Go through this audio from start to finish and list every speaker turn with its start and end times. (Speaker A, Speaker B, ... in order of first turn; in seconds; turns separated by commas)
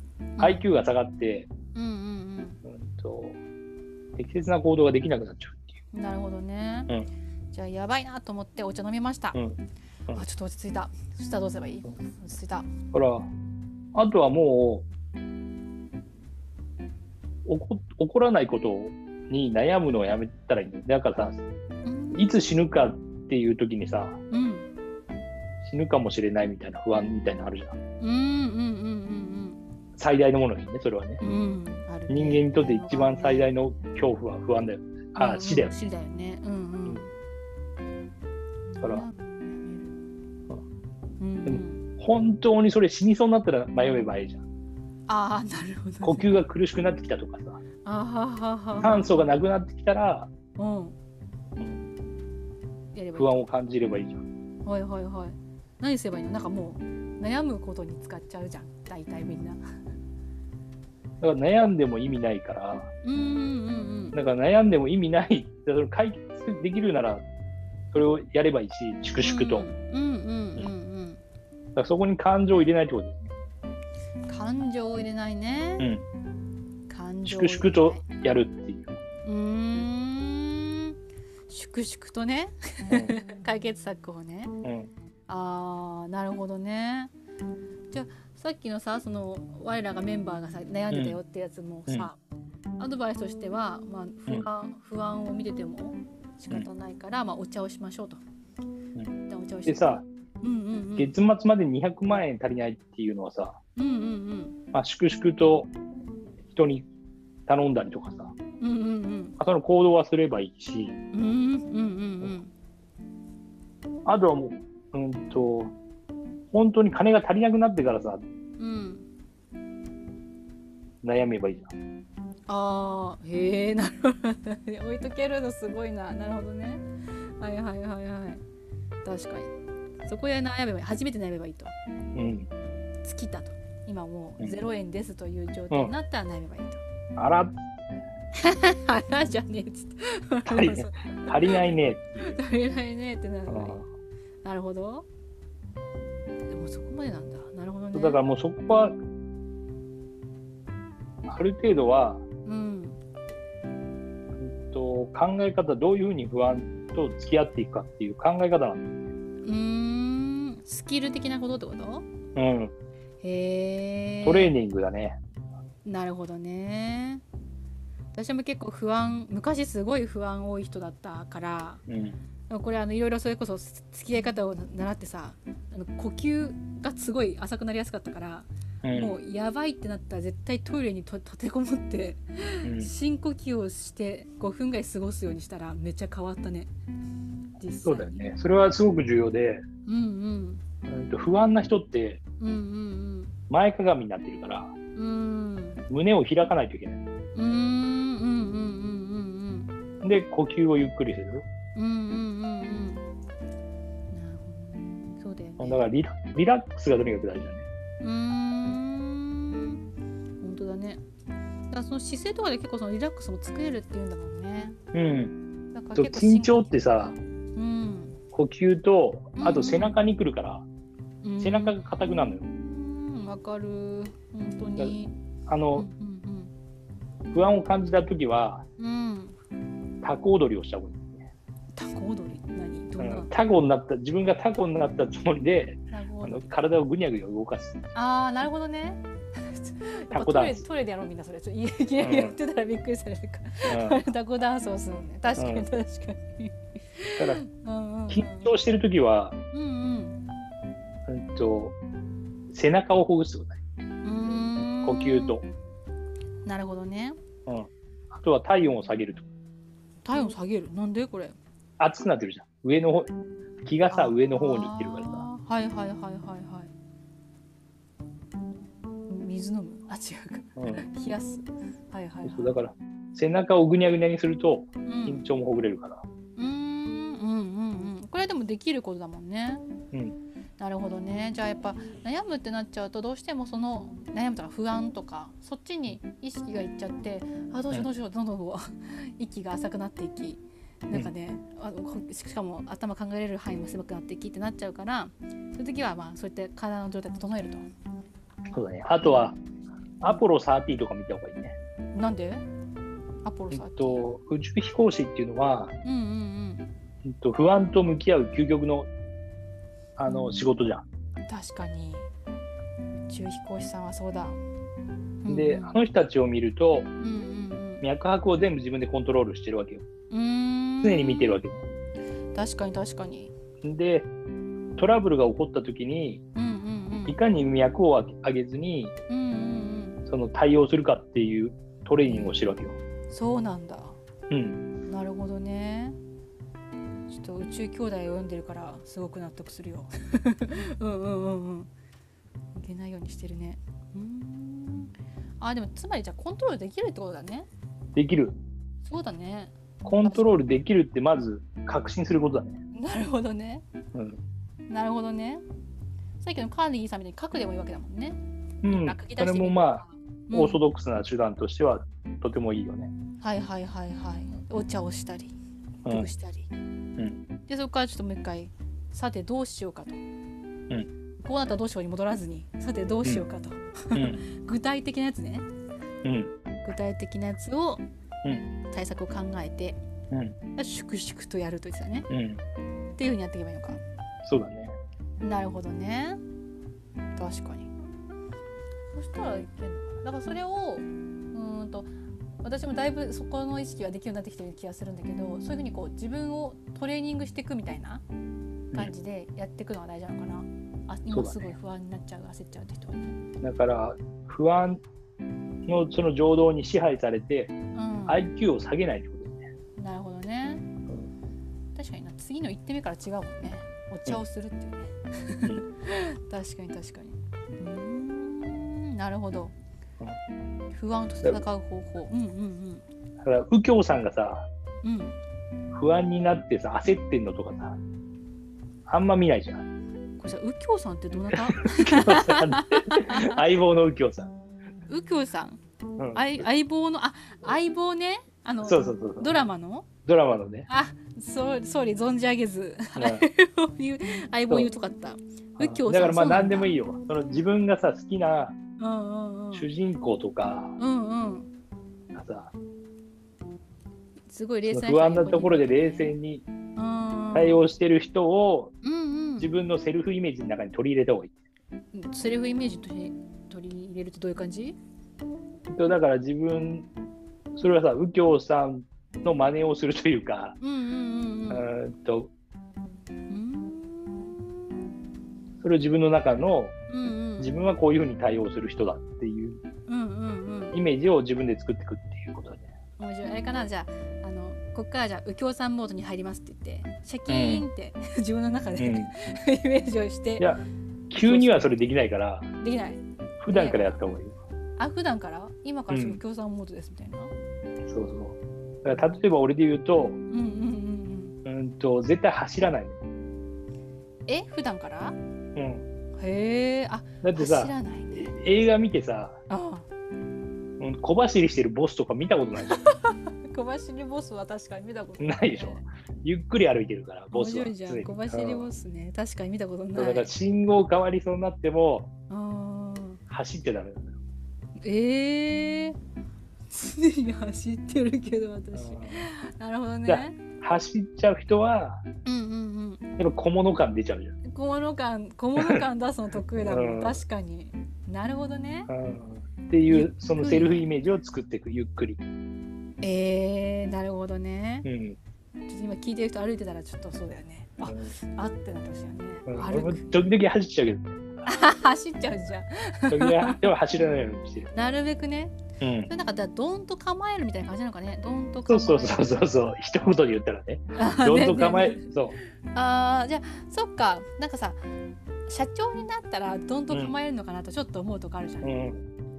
Speaker A: 0.4-0.7, Speaker B: 0.4-1.5, Speaker A: 1.7-2.6, Speaker B: 2.6-3.4, Speaker B: 4.2-5.8, Speaker A: 5.9-6.9, Speaker A: 7.5-9.4, Speaker A: 10.1-12.7, Speaker B: 12.9-13.3, Speaker B: 13.9-14.8, Speaker B: 17.4-21.4, Speaker A: 21.8-22.3, Speaker B: 22.1-24.2, Speaker A: 24.3-24.7, Speaker B: 25.6-27.7, Speaker A: 28.0-29.6, Speaker B: 30.0-31.2, Speaker A: 31.2-33.5, Speaker B: 32.1-35.7, Speaker A: 35.1-37.1, Speaker A: 38.7-39.9, Speaker B: 38.8-39.0, Speaker A: 41.2-41.8, Speaker B: 41.5-44.4, Speaker A: 45.1-46.3, Speaker B: 46.0-47.6, Speaker A: 47.8-49.2, Speaker B: 48.8-50.3, Speaker A: 50.6-51.0, Speaker A: 52.9-53.4, Speaker B: 53.1-54.2, Speaker A: 54.6-59.6, Speaker B: 61.2-62.9, Speaker A: 63.0-64.2, Speaker B: 64.1-67.2, Speaker B: 67.9-69.7, Speaker A: 69.2-71.2, Speaker B: 71.8-73.3, Speaker A: 74.3-75.9, Speaker A: 76.9-78.0, Speaker B: 77.2-79.0, Speaker A: 79.2-81.0, Speaker A: 81.5-84.5, Speaker B: 82.9-83.1, Speaker B: 84.6-84.9, Speaker A: 85.3-87.1, Speaker A: 87.9-92.2, Speaker B: 90.9-91.2, Speaker A: 92.8-98.2, Speaker A: 99.3-99.8, Speaker B: 99.7-100.0, Speaker A: 100.4-101.1, Speaker B: 101.0-103.6, Speaker A: 103.8-104.5, Speaker B: 104.7-105.7, Speaker B: 106.5-106.8, Speaker B: 107.5-108.3, Speaker A: 108.6-109.4, Speaker B: 109.4-110.9, Speaker A: 111.1-112.5, Speaker B: 114.0-115.7, Speaker B: 116.5-118.2, Speaker A: 118.6-119.1, Speaker B: 121.0-121.7, Speaker A: 122.5-126.8, Speaker A: 127.4-128.4, Speaker A: 129.0-131.7, Speaker B: 132.1-132.5, Speaker A: 133.0-136.8, Speaker B: 137.2-138.0, Speaker A: 138.4-141.6, Speaker B: 140.4-142.3, Speaker A: 142.2-143.8, Speaker B: 143.5-143.8, Speaker A: 144.4-145.1, Speaker A: 146.5-148.2, Speaker B: 147.9-149.0, Speaker B: 151.3-152.2, Speaker A: 152.4-153.0, Speaker B: 154.4-159.0, Speaker A: 159.4-162.1, Speaker B: 162.3-162.7, Speaker A: 163.2-164.5, Speaker B: 164.2-165.2, Speaker A: 165.8-167.2, Speaker A: 168.1-171.8, Speaker B: 171.9-172.2, Speaker A: 172.5-186.7, Speaker B: 178.8-179.2, Speaker B: 182.6-182.9, Speaker A: 187.6-188.2, Speaker B: 187.8-189.6, Speaker A: 189.8-190.6, Speaker B: 190.9-192.2, Speaker A: 192.4-193.3, Speaker B: 193.5-194.7, Speaker A: 194.9-195.8, Speaker B: 195.9-197.0, Speaker A: 197.3-199.7, Speaker B: 200.0-201.4, Speaker A: 201.7-203.0, Speaker A: 204.1-205.8, Speaker B: 205.6-207.7, Speaker A: 208.0-209.8, Speaker A: 210.4-211.0, Speaker A: 211.7-214.8, Speaker B: 214.9-215.3, Speaker A: 215.7-218.2, Speaker B: 215.9-217.2, Speaker B: 218.3-220.6, Speaker A: 219.4-219.9, Speaker A: 221.2-221.8, Speaker B: 221.4-222.4, Speaker A: 222.5-225.2, Speaker B: 225.5-225.9, Speaker A: 225.7-226.5, Speaker B: 227.3-228.6, Speaker A: 228.8-229.4, Speaker B: 230.0-231.3, Speaker A: 231.7-233.3, Speaker B: 233.0-237.8, Speaker A: 235.9-236.5, Speaker A: 237.9-248.5, Speaker B: 240.1-240.6, Speaker B: 242.0-242.3, Speaker B: 243.7-244.0, Speaker B: 245.4-245.7, Speaker B: 248.1-249.3, Speaker A: 249.5-250.2, Speaker B: 251.1-251.7, Speaker B: 252.5-253.6, Speaker A: 254.0-255.4, Speaker B: 254.8-255.4, Speaker A: 256.4-257.2, Speaker B: 257.4-259.3, Speaker A: 260.0-261.4, Speaker B: 261.8-263.1, Speaker B: 263.6-265.3, Speaker A: 263.9-266.7, Speaker A: 269.1-272.5, Speaker B: 270.6-270.9, Speaker B: 272.2-276.0, Speaker A: 274.9-275.2, Speaker A: 276.4-279.6, Speaker A: 280.6-297.6, Speaker B: 298.5-299.4, Speaker B: 300.0-301.6, Speaker A: 301.9-302.4, Speaker A: 303.2-304.0, Speaker B: 303.5-305.7, Speaker A: 305.8-306.6, Speaker B: 307.0-308.9, Speaker B: 310.0-310.8, Speaker A: 311.3-312.1, Speaker A: 313.1-314.4, Speaker A: 315.2-315.8, Speaker B: 315.3-316.9, Speaker A: 317.0-317.8, Speaker B: 317.8-319.8, Speaker A: 320.1-321.4, Speaker B: 320.8-321.6, Speaker A: 322.3-323.3, Speaker B: 323.6-324.1, Speaker B: 324.8-326.2, Speaker A: 326.3-327.2, Speaker B: 327.1-328.9, Speaker A: 329.1-330.0, Speaker B: 330.1-332.8, Speaker A: 332.1-332.5, Speaker A: 333.1-334.0, Speaker B: 334.3-334.6, Speaker A: 334.9-336.0, Speaker A: 337.1-341.7, Speaker A: 342.5-347.5, Speaker B: 347.9-348.4, Speaker A: 348.8-350.4, Speaker B: 349.8-352.6, Speaker A: 352.7-353.6, Speaker B: 353.9-354.2, Speaker A: 354.7-355.4, Speaker A: 356.2-360.6, Speaker B: 358.6-362.9, Speaker A: 363.2-365.3, Speaker A: 365.9-366.5, Speaker A: 367.5-370.0, Speaker A: 371.2-375.4, Speaker B: 373.9-374.2, Speaker B: 376.0-376.3, Speaker A: 376.6-377.8, Speaker A: 378.7-379.8, Speaker B: 380.1-380.4, Speaker A: 380.6-382.1, Speaker B: 382.1-382.4, Speaker A: 383.0-383.8, Speaker B: 384.2-384.7, Speaker A: 385.2-386.2, Speaker A: 387.1-387.7, Speaker A: 388.9-391.9, Speaker A: 392.4-398.0, Speaker A: 398.7-403.1, Speaker B: 401.1-401.5, Speaker B: 403.4-404.8, Speaker B: 405.7-407.5, Speaker A: 407.7-408.2, Speaker B: 408.1-409.4, Speaker A: 409.8-410.7, Speaker A: 411.7-419.5, Speaker A: 420.7-422.8, Speaker B: 423.2-424.4, Speaker A: 424.8-425.1, Speaker B: 425.7-427.8, Speaker B: 428.9-429.6, Speaker A: 430.2-433.4, Speaker B: 431.3-434.3, Speaker A: 434.9-435.6, Speaker B: 436.0-436.4, Speaker A: 436.1-439.9, Speaker B: 438.6-439.3, Speaker B: 440.1-440.7, Speaker A: 440.7-446.7, Speaker B: 442.9-443.2, Speaker B: 445.6-448.6, Speaker A: 448.8-449.7, Speaker B: 449.5-450.7, Speaker A: 450.8-451.5, Speaker B: 452.1-452.5, Speaker A: 454.3-456.1, Speaker B: 454.6-456.4, Speaker A: 456.8-457.6, Speaker B: 457.3-458.7, Speaker A: 458.8-459.5, Speaker B: 459.4-461.3, Speaker A: 461.9-464.8, Speaker B: 465.7-466.9, Speaker B: 467.5-470.6, Speaker A: 470.6-471.7, Speaker B: 471.5-472.3, Speaker A: 473.3-474.3, Speaker B: 475.6-476.7, Speaker A: 476.9-477.5, Speaker B: 477.4-479.6, Speaker A: 479.9-480.8, Speaker B: 480.7-482.7, Speaker A: 483.0-490.5, Speaker B: 487.3-487.7, Speaker B: 488.8-489.1, Speaker B: 490.4-492.5, Speaker A: 491.1-491.7, Speaker A: 492.6-494.0, Speaker B: 493.4-494.4, Speaker A: 494.8-497.3, Speaker B: 495.9-496.2, Speaker B: 497.9-500.2, Speaker A: 500.3-501.3, Speaker B: 501.4-503.0, Speaker A: 504.3-505.2, Speaker B: 505.6-505.8, Speaker A: 506.2-508.3, Speaker B: 507.2-509.4, Speaker A: 509.5-509.9, Speaker B: 510.8-512.8, Speaker A: 512.6-515.8, Speaker B: 515.2-518.7, Speaker A: 517.3-520.3, Speaker B: 520.0-522.1, Speaker A: 522.3-523.2, Speaker B: 523.3-524.1, Speaker A: 524.8-526.0, Speaker A: 526.7-530.4, Speaker B: 528.7-529.2, Speaker B: 530.1-532.0, Speaker A: 532.2-533.0, Speaker B: 533.2-534.3, Speaker A: 534.5-538.9, Speaker B: 535.6-535.8, Speaker B: 536.5-537.2, Speaker B: 538.9-542.2, Speaker A: 539.9-540.9, Speaker A: 543.0-544.9, Speaker B: 544.8-545.2, Speaker A: 545.6-550.1, Speaker B: 547.9-548.1, Speaker B: 549.5-551.2, Speaker A: 551.4-553.6, Speaker B: 553.1-554.7, Speaker A: 554.7-559.3, Speaker B: 555.8-556.1, Speaker B: 558.6-562.4, Speaker A: 560.9-562.0, Speaker A: 562.7-564.8, Speaker A: 565.5-568.8, Speaker B: 568.6-569.0